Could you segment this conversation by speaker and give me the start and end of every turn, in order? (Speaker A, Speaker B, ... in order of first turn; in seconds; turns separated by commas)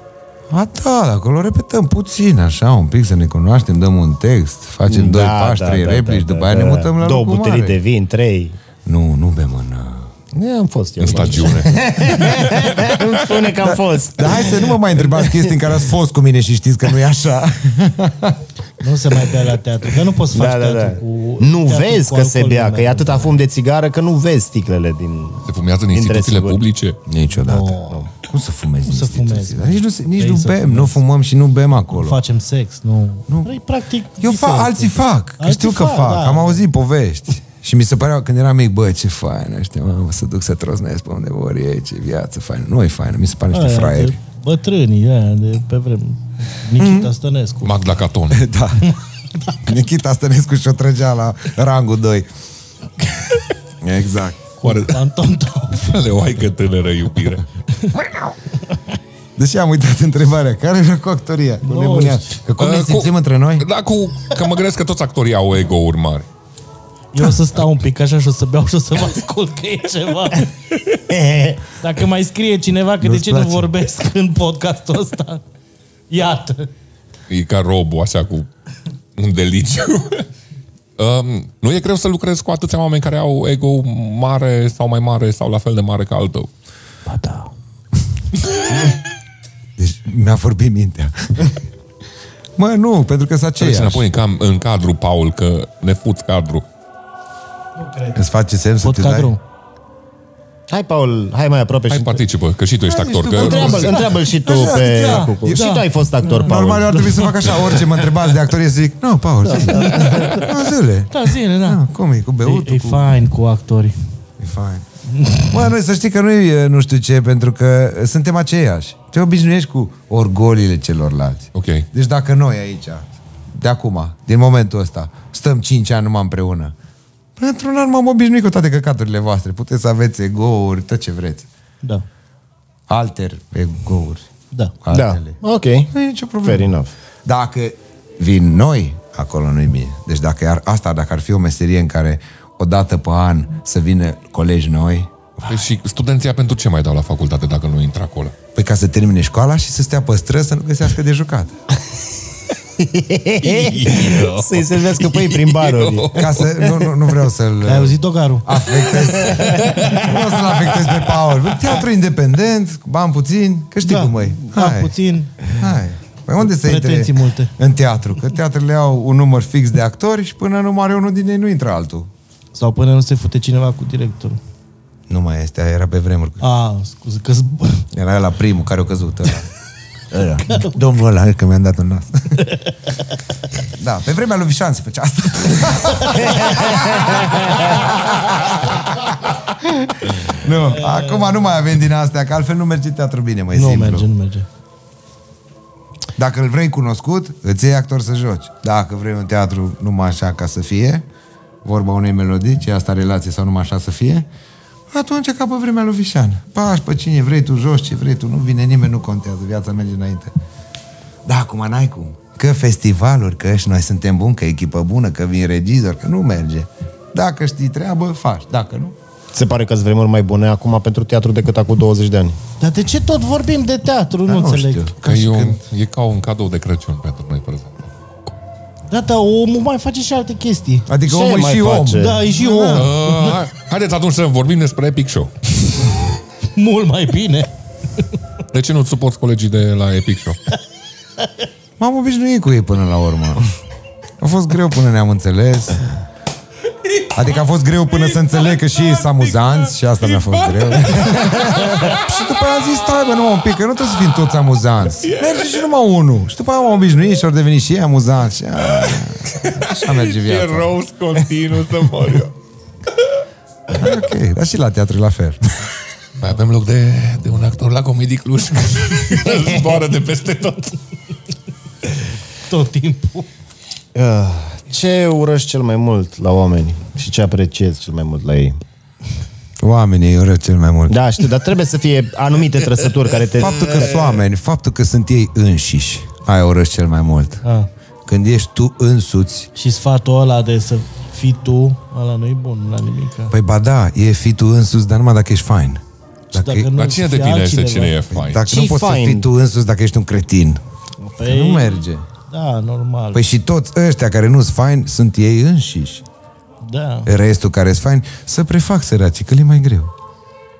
Speaker A: 0.5-7.8, Speaker B: 4.9-8.6, Speaker A: 8.8-10.1, Speaker B: 10.3-15.5, Speaker C: 11.0-13.1, Speaker A: 13.6-18.4, Speaker D: 18.8-23.4, Speaker B: 20.3-26.6, Speaker C: 25.4-27.0, Speaker A: 27.1-32.2, Speaker D: 27.4-28.1, Speaker D: 28.9-31.0, Speaker D: 31.9-36.6, Speaker A: 33.3-33.6, Speaker A: 34.2-44.2, Speaker D: 43.5-47.8, Speaker A: 46.8-47.1, Speaker C: 47.6-48.5, Speaker A: 48.3-49.0, Speaker A: 49.6-52.3, Speaker A: 53.8-54.5, Speaker D: 54.6-56.0, Speaker C: 54.6-55.0, Speaker C: 55.8-57.5, Speaker A: 59.4-63.7, Speaker D: 61.6-62.3, Speaker C: 62.6-66.3, Speaker D: 67.1-70.5, Speaker B: 71.2-71.5, Speaker D: 71.8-75.4, Speaker A: 73.0-73.7, Speaker D: 76.1-76.7, Speaker C: 77.3-78.5, Speaker C: 79.2-80.3, Speaker C: 81.0-86.5, Speaker D: 87.1-87.5, Speaker A: 89.8-91.6, Speaker A: 92.6-94.0, Speaker C: 93.6-96.7, Speaker D: 97.8-98.2, Speaker A: 98.1-99.3, Speaker D: 98.8-99.4, Speaker B: 100.7-102.2, Speaker C: 101.9-104.1, Speaker A: 102.9-105.8, Speaker B: 103.3-107.0, Speaker D: 105.0-107.8, Speaker A: 106.3-113.1, Speaker B: 109.5-110.4, Speaker D: 109.5-110.5, Speaker D: 111.1-111.8, Speaker D: 112.4-113.9, Speaker A: 114.4-114.8, Speaker D: 115.2-115.5, Speaker A: 115.5-126.7, Speaker C: 121.5-121.9, Speaker A: 127.4-131.5, Speaker A: 132.9-134.3, Speaker A: 134.8-135.4, Speaker B: 134.9-135.9, Speaker A: 135.9-136.7, Speaker B: 136.4-136.9, Speaker A: 137.2-145.6, Speaker C: 145.4-148.3, Speaker A: 148.6-151.5, Speaker B: 152.8-156.7, Speaker C: 153.4-156.5, Speaker A: 156.1-164.9, Speaker D: 157.6-158.5, Speaker B: 159.0-159.6, Speaker C: 159.3-160.0, Speaker D: 163.8-165.5, Speaker A: 165.5-172.1, Speaker D: 166.4-167.5, Speaker D: 172.5-174.4, Speaker A: 175.1-176.4, Speaker D: 176.4-177.9, Speaker A: 177.9-179.5, Speaker A: 180.1-182.4, Speaker B: 180.2-180.4, Speaker D: 180.5-180.7, Speaker D: 182.4-182.7, Speaker A: 183.7-194.1, Speaker B: 186.7-187.7, Speaker D: 190.8-191.3, Speaker D: 193.5-194.5, Speaker A: 196.2-201.1, Speaker A: 201.6-204.3, Speaker A: 204.9-210.3, Speaker A: 211.3-219.0, Speaker B: 219.3-222.4, Speaker D: 222.6-224.9, Speaker A: 224.3-225.6, Speaker C: 225.0-227.9, Speaker D: 228.9-230.9, Speaker A: 230.9-232.9, Speaker B: 231.0-232.2, Speaker D: 232.0-233.4, Speaker C: 232.7-235.3, Speaker D: 236.6-237.5, Speaker C: 238.5-240.4, Speaker A: 241.8-243.5, Speaker A: 244.2-245.9, Speaker A: 247.1-260.7, Speaker C: 248.2-251.9, Speaker C: 255.0-255.6, Speaker C: 258.6-262.3, Speaker A: 263.7-265.4, Speaker C: 266.2-270.8, Speaker D: 272.5-273.3, Speaker B: 273.9-278.6, Speaker A: 279.6-281.0, Speaker B: 280.9-284.1, Speaker A: 283.4-287.4, Speaker A: 288.1-289.5, Speaker D: 289.6-293.3, Speaker A: 293.3-296.7, Speaker D: 296.3-298.0, Speaker C: 296.8-298.5, Speaker A: 298.1-300.6, Speaker B: 298.4-299.3, Speaker D: 301.0-303.2, Speaker A: 301.2-302.1, Speaker A: 303.1-306.0, Speaker D: 306.6-307.1, Speaker A: 307.1-309.9